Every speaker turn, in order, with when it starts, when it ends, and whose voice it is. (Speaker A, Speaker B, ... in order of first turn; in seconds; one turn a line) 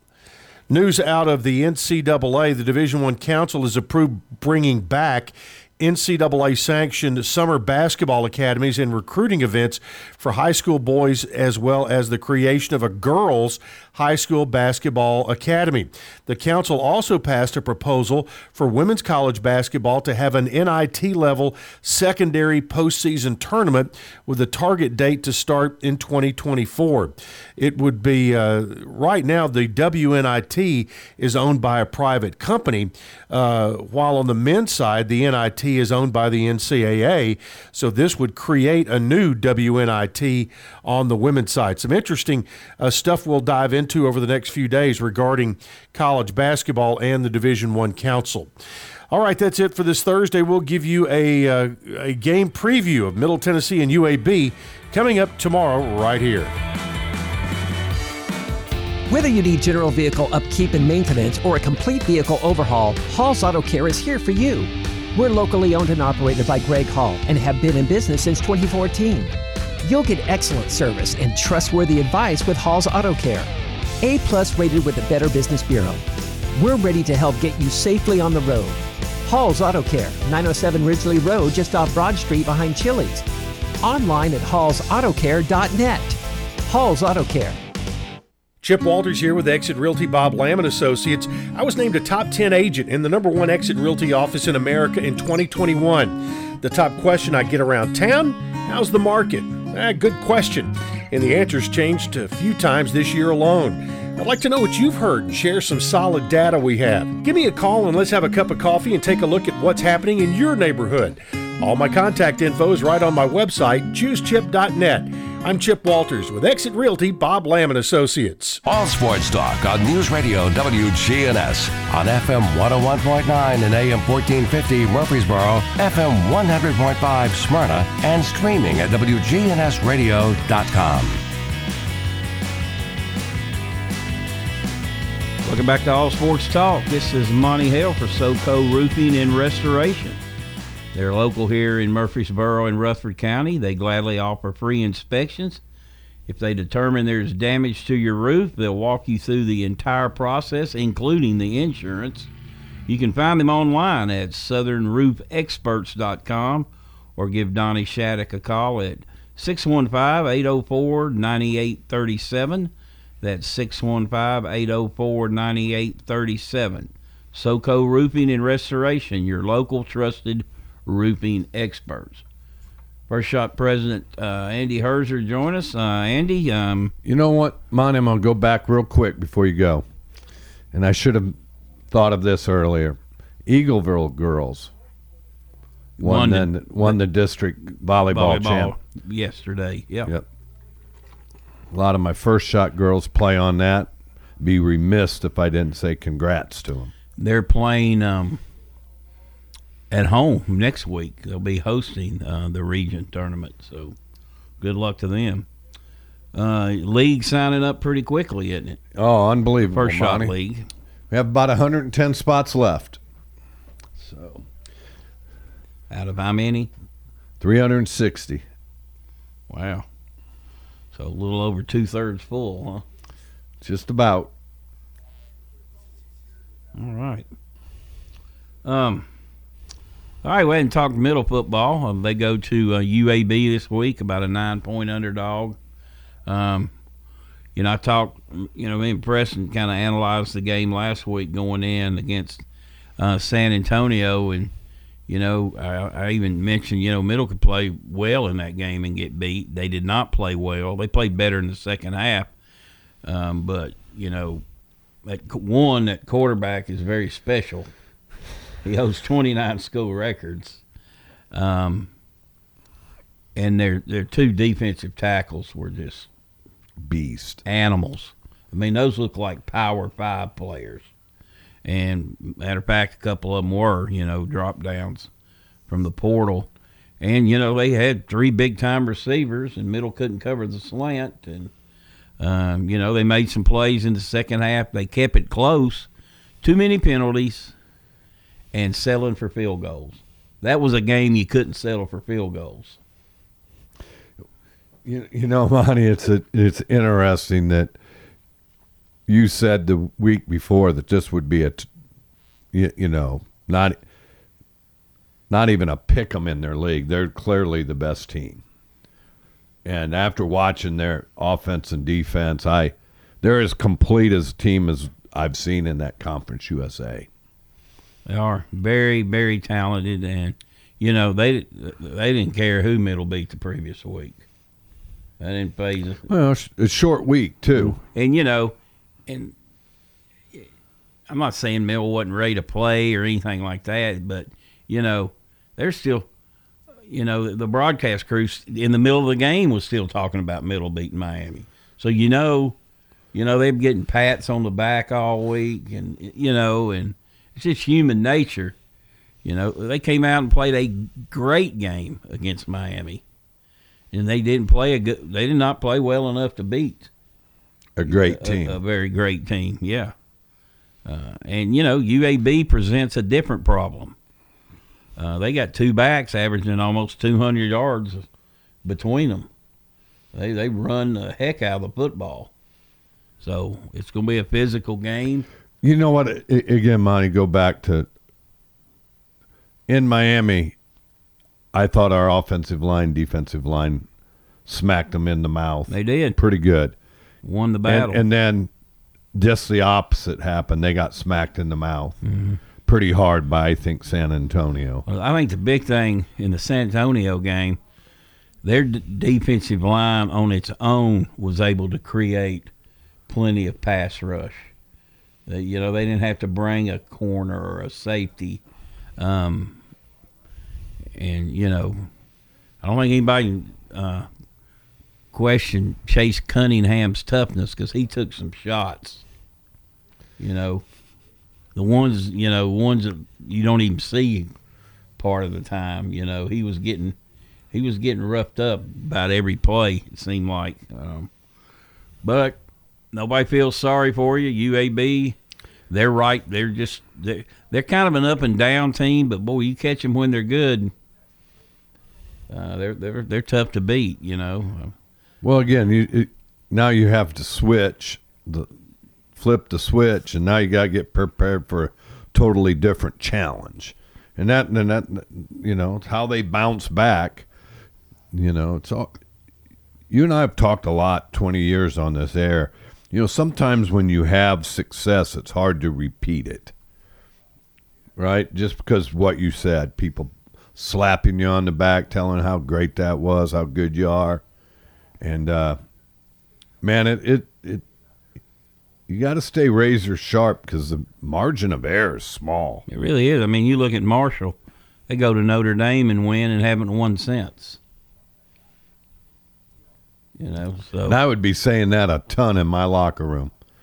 Speaker A: 0.7-48.5
Speaker A: 49.1-56.5
Speaker B: 59.1-73.5
Speaker B: 74.0-76.0
Speaker B: 76.5-83.2
Speaker B: 83.8-87.6
Speaker A: 88.6-118.6
Speaker C: 118.7-131.2
Speaker D: 135.4-140.2
Speaker D: 140.9-145.6
Speaker D: 146.3-152.3
Speaker D: 152.9-172.2
Speaker D: 173.1-176.9
Speaker E: 177.0-179.8
Speaker E: 180.7-181.4
Speaker E: 181.9-184.7
Speaker D: 186.0-187.0
Speaker E: 186.0-188.8
Speaker D: 188.1-190.1
Speaker E: 191.7-196.9
Speaker D: 197.2-198.4
Speaker D: 199.9-203.9
Speaker D: 204.6-205.5
Speaker D: 206.3-208.8
Speaker E: 208.9-210.3
Speaker D: 209.7-210.7
Speaker E: 211.1-213.0
Speaker E: 214.0-214.5
Speaker D: 215.9-216.7
Speaker E: 217.4-218.4
Speaker D: 219.5-219.8
Speaker D: 220.9-222.8
Speaker E: 223.6-224.3
Speaker D: 226.7-227.3
Speaker D: 228.6-229.1
Speaker D: 230.2-235.6
Speaker D: 236.2-236.7
Speaker D: 237.6-242.4
Speaker D: 243.0-244.5
Speaker D: 245.1-252.3
Speaker D: 253.0-254.4
Speaker D: 255.0-257.7
Speaker D: 258.6-260.6
Speaker D: 261.3-261.9
Speaker D: 263.3-266.1
Speaker E: 266.8-267.4
Speaker D: 267.4-270.9
Speaker D: 271.6-275.1
Speaker D: 275.7-276.5
Speaker D: 277.0-281.5
Speaker D: 282.2-285.9
Speaker D: 286.4-287.5
Speaker D: 288.5-292.8
Speaker E: 294.8-297.8
Speaker E: 299.1-301.7
Speaker E: 302.5-303.8
Speaker E: 305.3-308.4
Speaker E: 309.6-317.1
Speaker D: 318.1-324.2
Speaker D: 325.2-326.1
Speaker E: 326.1-327.8
Speaker D: 327.5-328.5
Speaker D: 329.1-329.3
Speaker D: 331.1-336.1
Speaker D: 336.9-342.6
Speaker D: 343.1-348.5
Speaker D: 349.2-353.0
Speaker D: 353.9-356.9
Speaker E: 357.8-358.6
Speaker D: 357.8-359.9
Speaker D: 360.8-363.9
Speaker D: 365.0-368.1
Speaker D: 368.6-369.3
Speaker D: 370.1-372.3
Speaker D: 373.2-375.2
Speaker E: 375.6-377.9
Speaker E: 379.7-380.5
Speaker E: 381.5-383.9
Speaker E: 384.4-386.7
Speaker D: 385.7-386.2
Speaker D: 387.2-388.0
Speaker E: 387.6-388.5
Speaker E: 389.1-391.9
Speaker D: 392.0-392.4
Speaker E: 392.6-394.8
Speaker D: 394.9-397.6
Speaker D: 398.4-402.5
Speaker D: 403.1-404.5
Speaker D: 405.3-408.4
Speaker D: 409.0-409.6
Speaker D: 410.9-411.9
Speaker D: 412.6-414.1
Speaker D: 415.1-419.0
Speaker D: 420.2-420.6
Speaker D: 421.5-424.3
Speaker D: 425.0-426.9
Speaker D: 427.5-431.1
Speaker D: 432.0-432.4
Speaker D: 432.9-435.1
Speaker D: 435.7-440.7
Speaker D: 442.3-444.7
Speaker E: 445.2-448.5
Speaker E: 449.1-457.3
Speaker E: 458.1-459.0
Speaker E: 459.9-466.5
Speaker E: 467.9-474.2
Speaker E: 475.0-475.6
Speaker E: 476.6-477.6
Speaker E: 478.9-482.6
Speaker D: 482.7-484.4
Speaker D: 484.9-487.6
Speaker D: 490.2-491.0
Speaker E: 490.8-493.3